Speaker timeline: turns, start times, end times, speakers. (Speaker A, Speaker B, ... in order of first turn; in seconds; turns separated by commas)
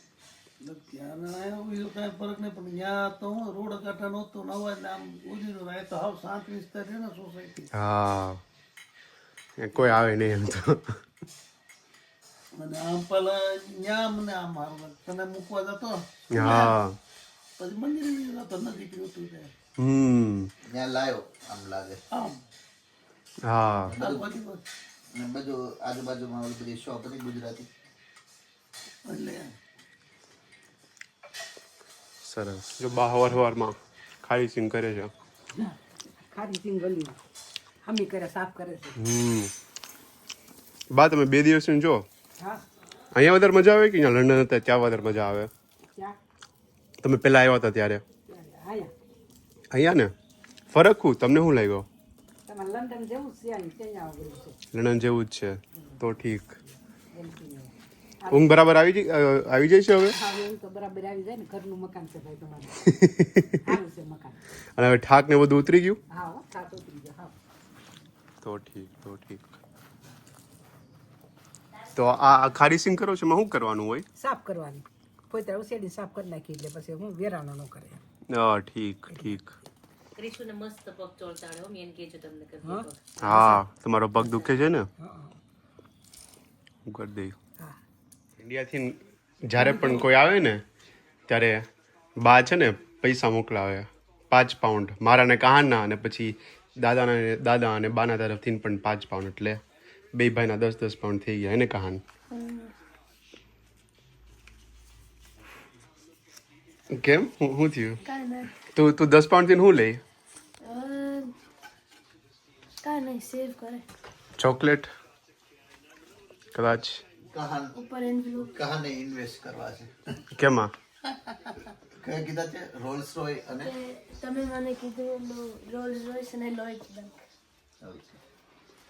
Speaker A: 0.6-7.7, Speaker B: 7.7-8.4, Speaker B: 9.6-10.8, Speaker A: 12.5-16.8, Speaker B: 16.3-17.0, Speaker A: 17.6-19.5, Speaker B: 19.8-20.5, Speaker C: 20.7-22.0, Speaker A: 22.1-22.4, Speaker B: 23.4-23.9, Speaker C: 23.9-24.3, Speaker A: 23.9-24.6, Speaker C: 25.1-27.7, Speaker A: 29.1-29.5, Speaker B: 32.2-35.1, Speaker D: 35.5-37.2, Speaker D: 37.9-39.0, Speaker B: 39.0-39.5, Speaker B: 40.9-42.0, Speaker B: 43.1-45.5, Speaker B: 47.0-48.0, Speaker D: 48.3-48.9, Speaker B: 49.7-50.1, Speaker B: 50.7-51.9, Speaker D: 52.5-54.6, Speaker B: 54.7-56.6, Speaker D: 55.8-56.1, Speaker D: 56.7-58.6, Speaker B: 58.3-60.2, Speaker D: 60.1-62.9, Speaker B: 62.9-63.5, Speaker D: 63.5-64.4, Speaker B: 64.8-66.0, Speaker D: 66.1-67.3, Speaker B: 68.4-69.5, Speaker B: 72.0-74.1, Speaker D: 74.2-78.0, Speaker B: 78.3-79.5, Speaker D: 79.1-79.4, Speaker E: 80.2-83.5, Speaker D: 82.6-83.6, Speaker B: 83.2-84.9, Speaker D: 84.2-85.4, Speaker B: 86.9-87.4, Speaker B: 88.4-90.6, Speaker D: 89.6-90.0, Speaker B: 91.3-91.7, Speaker B: 92.2-99.6, Speaker B: 100.1-102.0, Speaker F: 102.3-102.7, Speaker B: 106.9-108.0, Speaker F: 108.1-108.6, Speaker B: 108.7-110.0, Speaker F: 110.6-111.3, Speaker F: 112.8-113.8, Speaker B: 114.4-114.9, Speaker B: 116.5-117.0, Speaker C: 117.3-117.8, Speaker F: 117.8-118.5, Speaker C: 118.5-119.9, Speaker B: 120.3-120.7, Speaker C: 122.0-123.8, Speaker F: 123.6-127.2, Speaker C: 127.8-128.2